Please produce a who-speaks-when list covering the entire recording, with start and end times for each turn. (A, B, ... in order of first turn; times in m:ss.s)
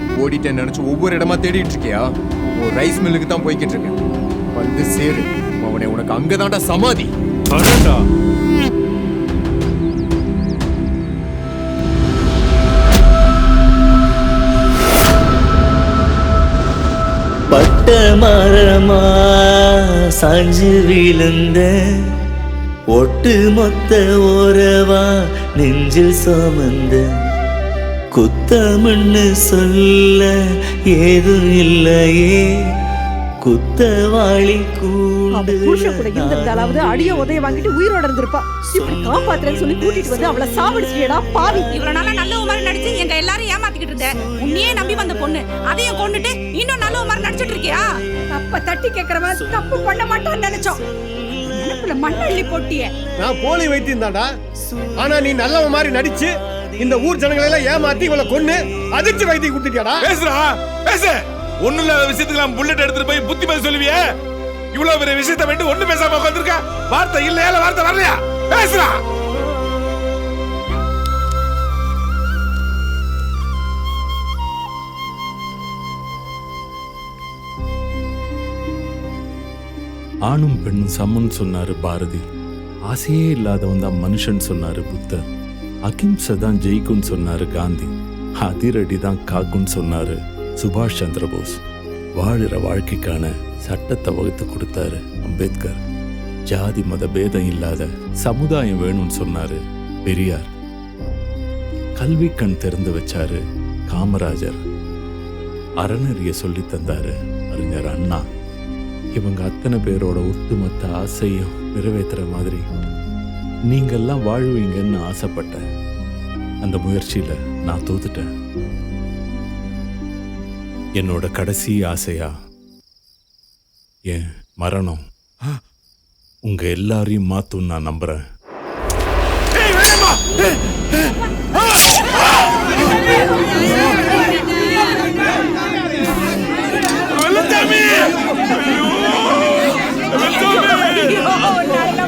0:00.2-0:04.0 A
0:04.5-0:07.1 A
0:07.5-0:07.9 B
0:17.5-0:22.2 C
0:22.9-0:27.1 C
0:28.1-0:30.4 C
0:30.9-0:32.5 C
0:33.4-0:37.2 C
0:35.3-0:41.7 D
0:38.8-0:39.4 C
0:41.6-0:47.8 E
0:48.4-0:48.9 D
0:48.9-0:50.7 E
0:51.6-0:52.9 E
0:53.2-0:54.3 F
0:55.0-1:00.0 F
1:00.0-1:04.1 G
1:04.7-1:09.0 G
1:20.3-1:22.2 B
1:22.9-1:25.3 B
1:25.9-1:31.6 B
1:32.2-1:35.8 B
1:36.5-1:40.5 B
1:42.0-1:44.6 B
1:45.8-1:48.2 B
1:49.2-1:52.6 B
1:53.7-1:55.6 B
1:56.6-1:58.3 B
2:01.0-2:02.3 B
2:04.1-2:05.0 B
2:06.4-2:08.2 B
2:17.4-2:18.1 B
2:18.7-2:19.2 B
2:20.2-2:21.3 B